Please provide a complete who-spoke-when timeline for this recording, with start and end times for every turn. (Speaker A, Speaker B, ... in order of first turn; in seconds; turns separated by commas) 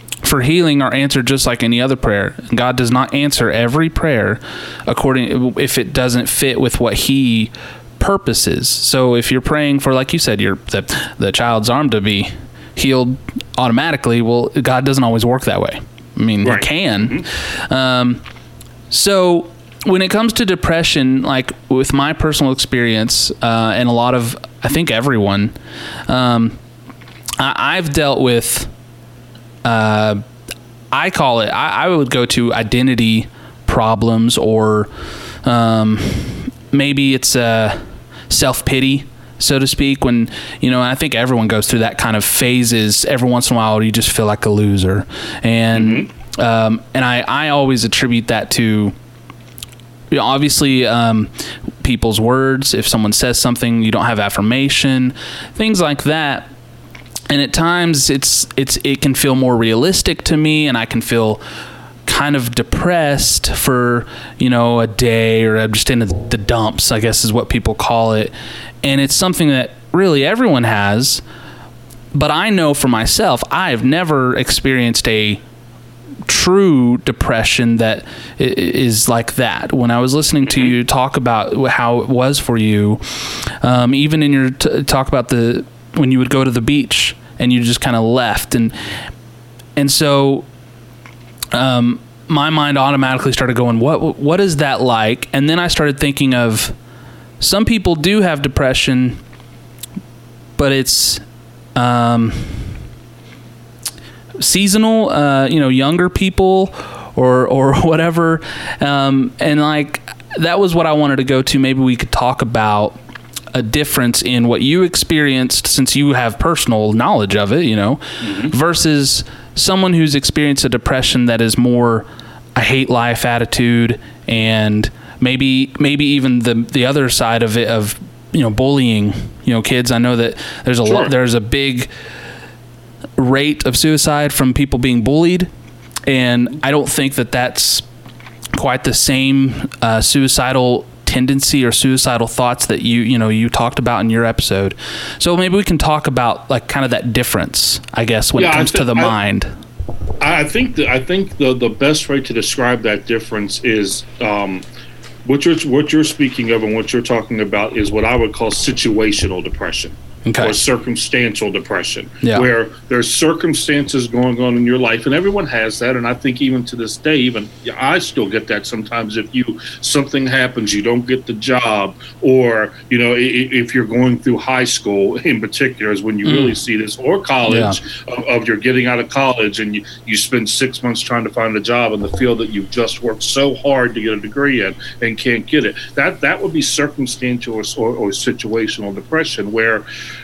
Speaker A: 0.2-18.2, Speaker B: 16.4-17.2, Speaker A: 18.9-25.5, Speaker A: 26.1-26.6, Speaker A: 27.4-28.7, Speaker A: 29.6-30.2, Speaker A: 30.9-34.9, Speaker A: 35.4-48.9, Speaker B: 45.7-46.1, Speaker A: 50.1-56.5, Speaker A: 57.3-61.4, Speaker A: 62.1-71.2, Speaker A: 72.1-75.4, Speaker A: 76.2-88.7, Speaker A: 89.8-90.5, Speaker A: 91.5-96.7, Speaker A: 97.4-99.2, Speaker A: 100.6-101.2, Speaker A: 101.8-102.8, Speaker A: 104.4-113.0, Speaker A: 113.5-131.9, Speaker B: 118.2-118.5, Speaker B: 130.8-131.1, Speaker A: 133.2-135.5, Speaker A: 136.1-137.9, Speaker A: 138.6-149.5, Speaker B: 148.4-149.1, Speaker B: 150.2-154.6, Speaker B: 155.2-189.8, Speaker A: 160.2-160.6, Speaker A: 176.2-176.6, Speaker A: 177.5-177.8